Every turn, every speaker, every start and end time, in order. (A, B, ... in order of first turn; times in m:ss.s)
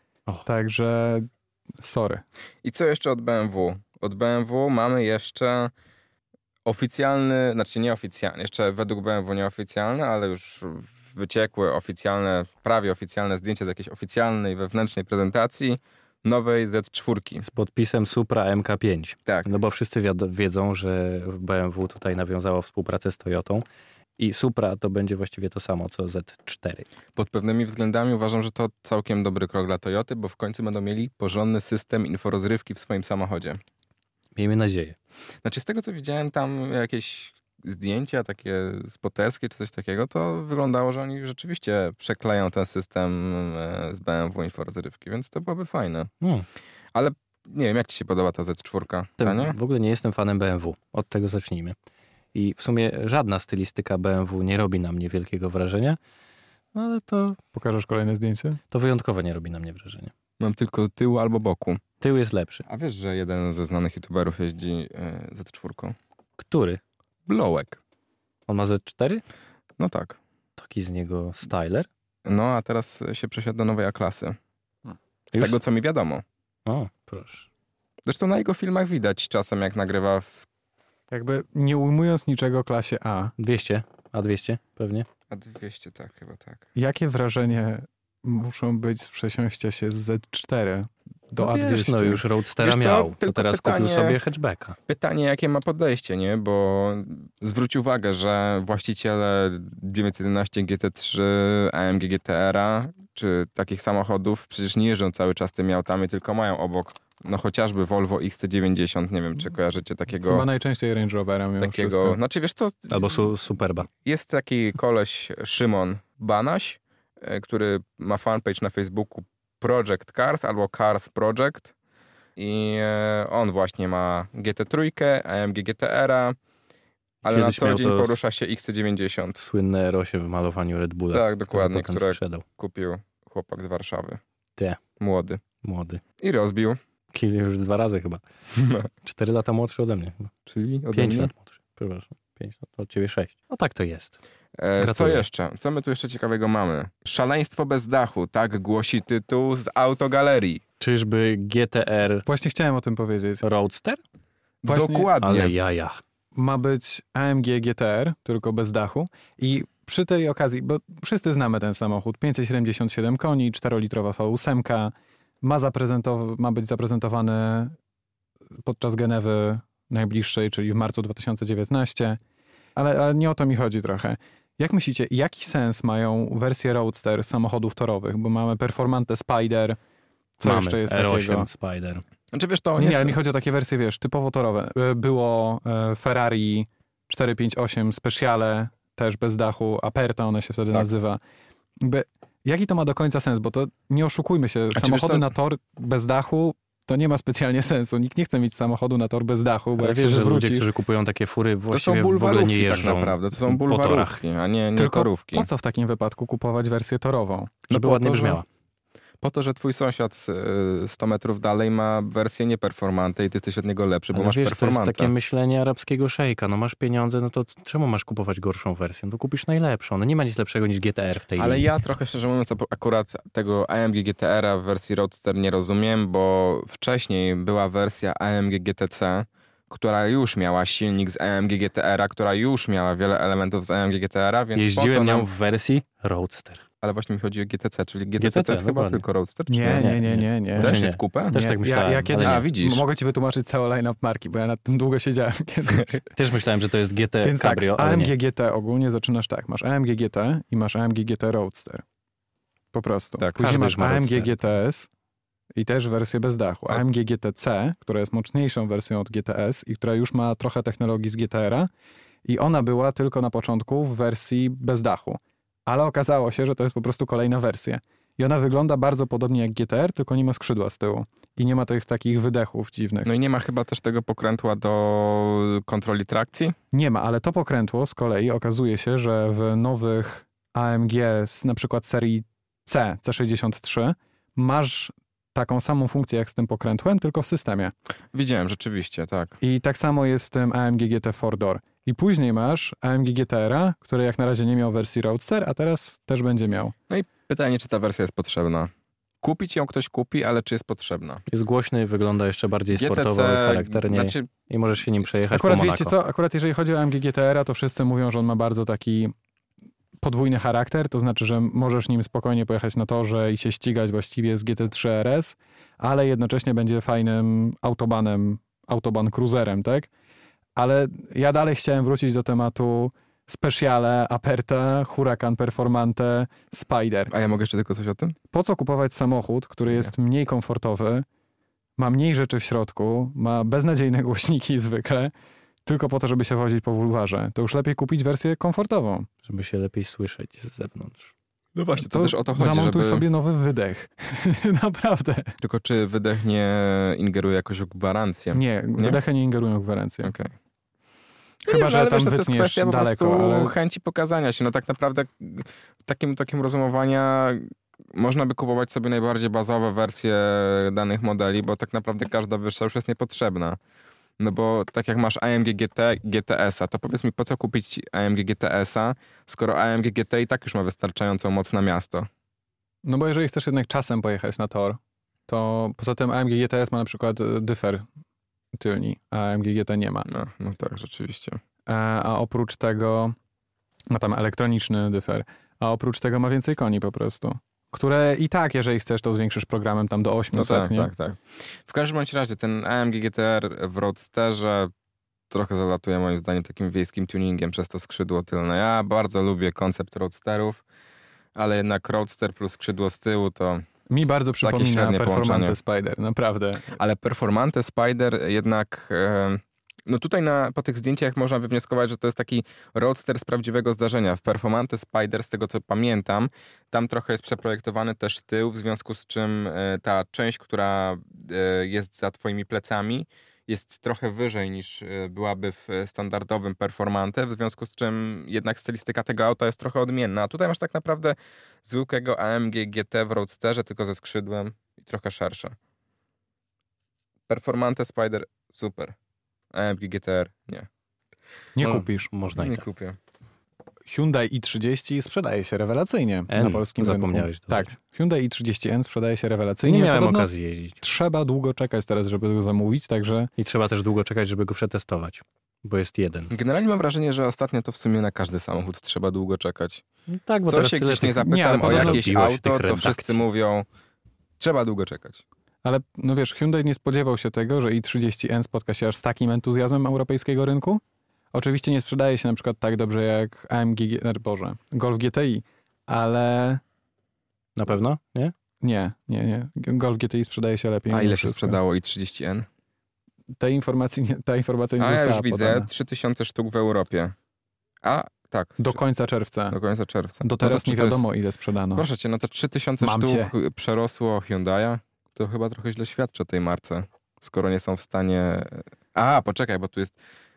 0:00.4-0:01.3 A
0:01.8-0:02.2 A
0:02.6-0:05.7 B
0:06.6-0:17.5 B
0:17.4-0:23.6 C
0:24.2-0:26.9 C
0:27.1-0:33.6 B
0:34.4-0:35.0 C
0:35.4-0:46.1 B
0:46.2-0:46.4 C
0:46.9-0:49.6 B
0:49.2-0:51.8 C
0:52.3-0:56.0 C
0:56.7-0:57.4 C
0:57.5-0:58.6 A
0:58.7-1:00.1 C
1:00.4-1:01.8 B
1:02.0-1:02.6 C
1:02.7-1:06.0 B
1:06.4-1:06.8 C
1:07.3-1:07.8 B
1:08.5-1:09.2 C
1:09.8-1:10.2 B
1:10.6-1:11.9 C
1:12.2-1:14.4 B
1:15.3-1:16.2 B
1:15.3-1:15.6 C
1:16.6-1:17.5 C
1:18.0-1:20.4 B
1:21.1-1:23.3 A
1:23.4-1:25.1 C
1:25.3-1:26.6 B
1:26.7-1:32.2 A
1:31.4-1:34.8 C
1:32.6-1:34.2 B
1:34.9-1:50.5 B
1:50.3-1:52.2 A
1:51.6-1:53.3 B
1:52.9-1:53.9 C
1:54.0-2:01.7 B
2:02.4-2:06.4 B
2:07.2-2:09.4 B
2:07.2-2:08.2 C
2:09.4-2:12.4 C
2:11.1-2:14.2 B
2:15.0-2:15.4 B
2:15.6-2:16.0 C
2:16.2-2:16.8 B
2:17.1-2:18.2 C
2:18.5-2:18.9 B
2:19.0-2:20.3 C
2:20.4-2:21.3 B
2:20.9-2:24.2 C
2:24.6-2:30.6 B
2:24.8-2:25.2 C
2:30.8-2:32.2 C
2:32.3-2:33.4 A
2:33.4-2:34.0 C
2:34.6-2:35.6 B
2:34.7-2:35.1 A
2:35.2-2:36.0 C
2:36.3-2:47.8 A
2:48.6-2:52.2 A
2:52.8-2:59.8 A
3:00.4-3:01.5 A
3:00.4-3:02.0 C
3:02.3-3:03.2 B
3:02.8-3:11.2 A
3:11.8-3:20.7 A
3:14.7-3:15.3 B
3:19.8-3:24.2 C
3:21.7-3:25.5 B
3:24.7-3:27.6 A
3:27.7-3:28.4 B
3:27.7-3:28.4 C
3:29.2-3:35.1 B
3:34.1-3:41.7 C
3:41.4-3:55.3 B
3:54.5-3:56.6 C
3:56.8-3:59.9 B
3:58.2-3:59.0 C
3:59.5-4:00.8 A
3:59.7-4:02.4 C
4:00.6-4:01.4 B
4:01.3-4:06.1 A
4:02.2-4:02.8 B
4:05.7-4:06.0 B
4:06.1-4:08.1 C
4:07.2-4:11.8 A
4:12.7-4:14.9 A
4:13.2-4:13.5 B
4:13.4-4:14.4 C
4:15.5-4:21.7 A
4:22.2-4:33.1 A
4:33.0-4:36.6 B
4:36.7-4:47.7 A
4:48.1-4:49.4 B
4:49.4-4:56.7 A
4:56.9-4:58.7 B
4:59.2-5:01.2 B
5:01.3-5:06.0 C
5:02.7-5:04.3 B
5:05.3-5:09.1 A
5:10.0-5:19.9 A
5:20.6-5:27.1 A
5:27.1-5:28.2 B
5:28.3-5:31.0 A
5:31.8-5:35.1 A
5:35.6-5:39.1 A
5:39.2-5:41.1 C
5:41.5-5:43.0 B
5:41.8-5:45.4 A
5:45.4-5:49.0 B
5:48.3-5:50.1 A
5:50.0-5:50.3 B
5:51.4-5:53.5 A
5:51.4-6:03.6 B
6:04.2-6:12.1 B
6:12.8-6:17.8 A
6:18.5-6:20.1 A
6:20.0-6:21.4 B
6:21.7-6:23.1 A
6:23.9-6:30.9 A
6:30.3-6:34.7 B
6:35.3-6:40.6 B
6:41.3-6:43.6 B
6:43.9-6:46.7 A
6:44.4-6:45.6 B
6:46.7-7:15.6 B
7:17.3-7:18.9 B
7:19.5-7:20.7 B
7:21.6-7:22.1 A
7:21.6-7:22.6 C
7:22.3-7:23.0 B
7:23.9-7:30.3 A
7:26.3-7:27.7 C
7:29.6-7:30.8 C
7:30.8-7:33.3 A
7:33.4-7:36.3 C
7:36.3-7:39.8 B
7:40.1-7:43.2 C
7:40.5-7:43.7 B
7:41.2-7:42.0 A
7:44.4-7:45.2 B
7:45.6-7:50.8 A
7:51.3-7:56.6 A
7:57.6-7:58.3 C
7:58.6-8:01.6 A
8:00.9-8:02.5 B
8:03.4-8:05.7 A
8:04.8-8:07.1 B
8:07.8-8:08.8 B
8:08.6-8:09.6 A
8:09.5-8:11.1 B
8:10.2-8:11.8 A
8:11.7-8:20.0 B
8:12.8-8:13.3 A